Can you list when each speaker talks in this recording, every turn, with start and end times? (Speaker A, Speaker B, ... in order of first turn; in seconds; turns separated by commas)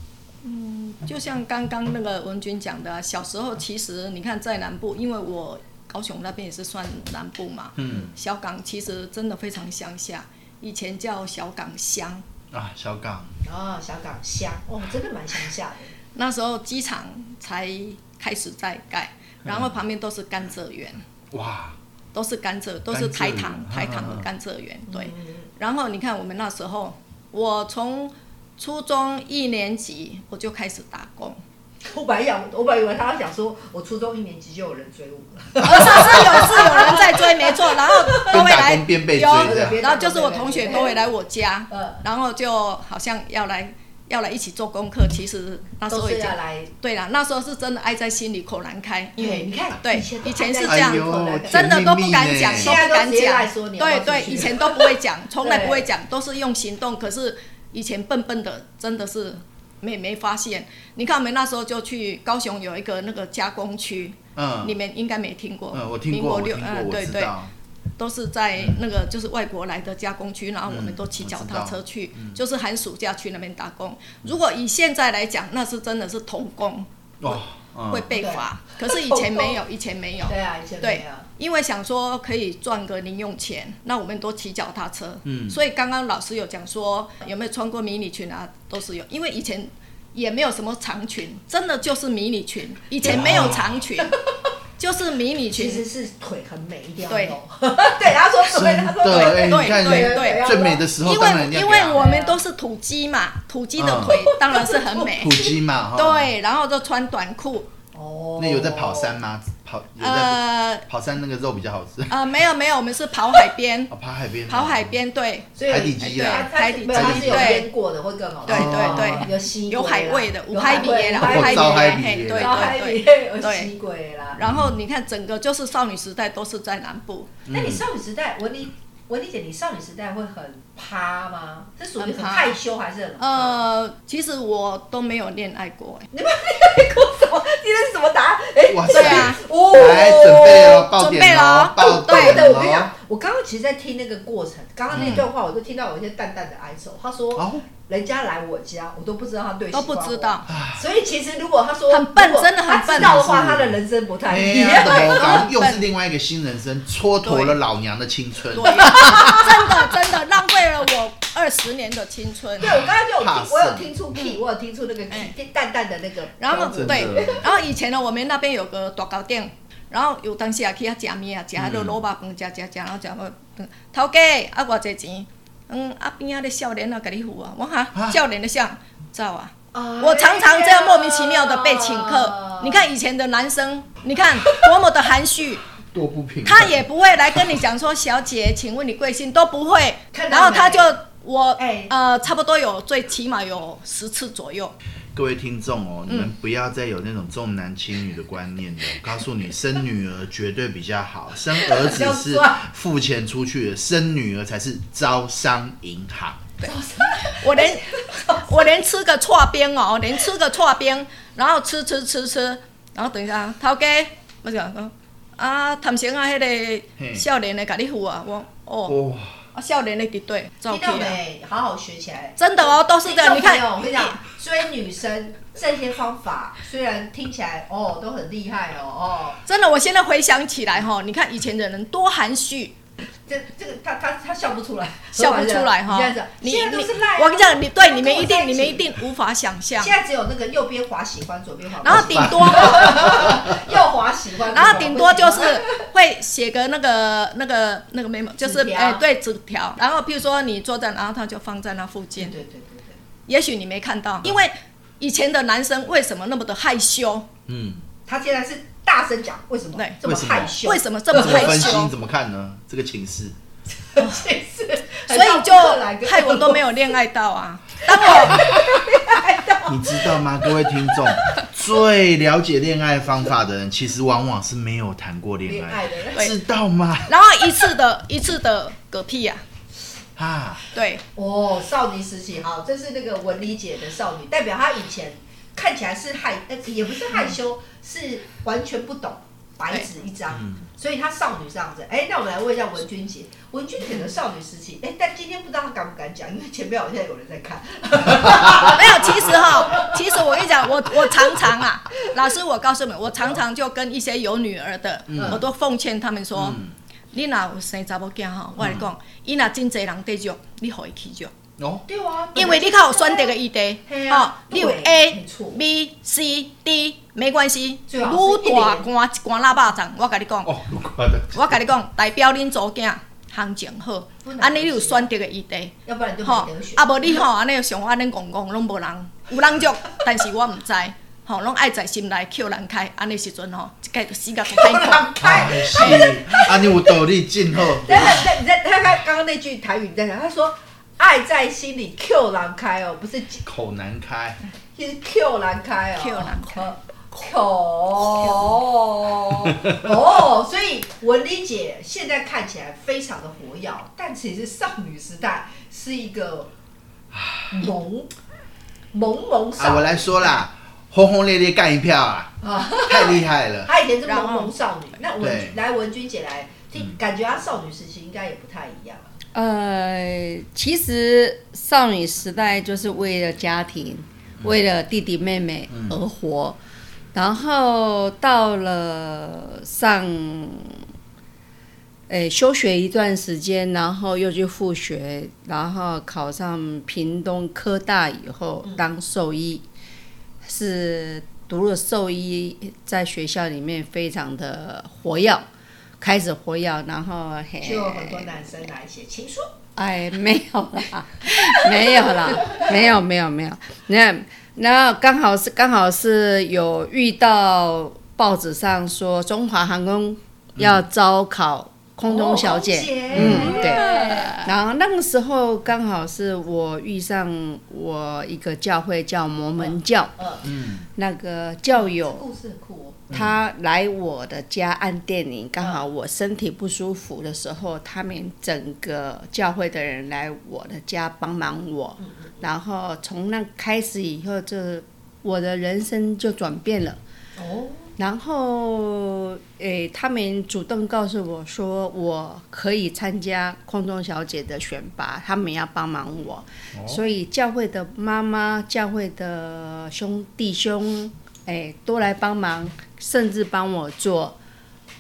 Speaker A: 0.4-12.2, Speaker B: 7.8-8.1, Speaker B: 12.5-13.4, Speaker C: 13.4-15.9, Speaker A: 16.1-21.0, Speaker B: 19.4-19.8, Speaker B: 21.3-21.8, Speaker A: 22.1-31.4, Speaker B: 22.9-24.3, Speaker C: 24.9-25.5, Speaker C: 31.9-38.5, Speaker A: 35.6-67.3, Speaker B: 36.0-36.4, Speaker B: 38.3-39.8, Speaker C: 39.3-41.0, Speaker C: 41.7-42.0, Speaker C: 45.9-46.7, Speaker C: 49.2-51.8, Speaker B: 50.6-52.8, Speaker C: 52.5-55.9, Speaker B: 64.3-64.8, Speaker B: 65.7-67.5, Speaker A: 68.0-94.2, Speaker B: 70.7-72.4, Speaker B: 77.2-78.1, Speaker C: 78.1-79.6, Speaker C: 80.2-81.3, Speaker B: 85.2-85.6, Speaker B: 93.0-93.8, Speaker A: 94.8-95.8, Speaker C: 95.5-100.8, Speaker A: 97.1-97.4, Speaker B: 98.4-102.0, Speaker A: 99.2-107.7, Speaker C: 102.0-102.4, Speaker B: 103.8-104.2, Speaker C: 104.1-105.5, Speaker B: 105.2-106.3, Speaker C: 107.9-109.2, Speaker B: 108.4-112.2, Speaker A: 110.0-110.8, Speaker A: 112.1-113.9, Speaker B: 113.9-115.0, Speaker A: 114.5-117.7, Speaker C: 115.6-124.4, Speaker B: 115.7-117.7, Speaker A: 118.5-123.7, Speaker B: 118.5-119.3, Speaker B: 121.0-122.8, Speaker A: 124.4-127.3, Speaker B: 124.4-124.8, Speaker B: 127.5-127.8, Speaker C: 127.5-133.6, Speaker A: 132.0-132.6, Speaker A: 133.2-136.1, Speaker C: 136.1-140.9, Speaker B: 138.7-142.9, Speaker A: 138.9-139.4, Speaker A: 140.4-142.5, Speaker C: 141.8-155.5, Speaker B: 144.9-145.2, Speaker B: 147.4-147.7, Speaker A: 149.7-150.5, Speaker B: 150.5-150.8, Speaker A: 151.9-153.2, Speaker B: 152.9-159.3, Speaker A: 154.5-155.9, Speaker A: 157.2-157.6, Speaker A: 158.5-162.8, Speaker C: 158.8-159.6, Speaker B: 162.6-163.9, Speaker C: 162.6-167.6, Speaker A: 166.4-185.7, Speaker B: 166.7-167.5, Speaker B: 171.6-172.0, Speaker C: 179.7-182.9, Speaker B: 185.9-186.8, Speaker A: 186.4-194.8, Speaker C: 190.1-191.0, Speaker C: 191.6-191.9, Speaker B: 195.1-206.5, Speaker C: 201.5-202.7, Speaker A: 206.6-219.0, Speaker C: 206.6-208.7, Speaker B: 217.0-217.2, Speaker B: 218.9-219.3, Speaker A: 219.5-221.2, Speaker C: 220.7-229.4, Speaker A: 222.4-224.2, Speaker A: 229.4-232.8, Speaker C: 233.3-238.9, Speaker A: 235.2-239.9, Speaker C: 239.8-245.8, Speaker A: 241.8-243.3, Speaker B: 241.9-243.6, Speaker A: 244.5-252.3, Speaker C: 248.4-249.0, Speaker C: 252.2-253.0, Speaker A: 253.3-257.3, Speaker B: 257.5-257.8, Speaker C: 258.1-261.8, Speaker A: 259.8-261.9, Speaker B: 260.0-260.6, Speaker B: 261.1-263.4, Speaker C: 263.9-266.7, Speaker A: 265.1-268.5, Speaker C: 267.9-271.3, Speaker B: 268.3-269.1, Speaker B: 269.7-277.1, Speaker C: 275.5-276.3, Speaker A: 277.1-279.4, Speaker B: 280.2-280.6, Speaker A: 280.7-281.0, Speaker C: 281.1-300.2, Speaker B: 290.3-290.6, Speaker A: 298.5-306.6, Speaker B: 305.1-305.4, Speaker C: 305.1-305.4, Speaker B: 306.4-306.7, Speaker A: 307.1-311.3, Speaker B: 308.6-308.9, Speaker B: 311.6-311.9, Speaker C: 311.9-313.4, Speaker A: 312.4-320.6, Speaker C: 313.9-315.6, Speaker C: 317.9-318.9, Speaker B: 320.4-321.6, Speaker A: 321.3-336.2, Speaker C: 324.2-325.1, Speaker C: 325.9-327.2, Speaker C: 334.5-336.9, Speaker B: 335.2-338.3, Speaker C: 337.8-343.4, Speaker A: 337.9-338.2, Speaker B: 343.4-344.4, Speaker C: 344.8-356.5, Speaker A: 346.0-346.7, Speaker A: 348.0-348.6, Speaker B: 357.1-357.5, Speaker C: 357.5-358.1, Speaker C: 358.9-360.4, Speaker B: 359.6-363.7, Speaker C: 362.4-369.1, Speaker A: 364.1-364.5, Speaker B: 365.2-365.6, Speaker D: 369.3-376.6, Speaker B: 375.7-376.0, Speaker D: 377.1-380.9, Speaker D: 382.1-389.6, Speaker D: 390.4-395.4, Speaker D: 396.0-398.5, Speaker C: 397.6-399.4, Speaker D: 399.8-420.1, Speaker C: 401.7-402.7, Speaker B: 410.6-410.8, Speaker C: 412.1-414.4, Speaker B: 413.1-413.6, Speaker A: 413.2-414.5, Speaker C: 419.6-420.5, Speaker B: 420.4-420.9, Speaker D: 421.0-422.2, Speaker C: 421.7-423.1, Speaker D: 423.1-437.0, Speaker C: 432.0-432.4, Speaker C: 437.4-437.9, Speaker D: 438.0-454.4, Speaker B: 446.7-447.0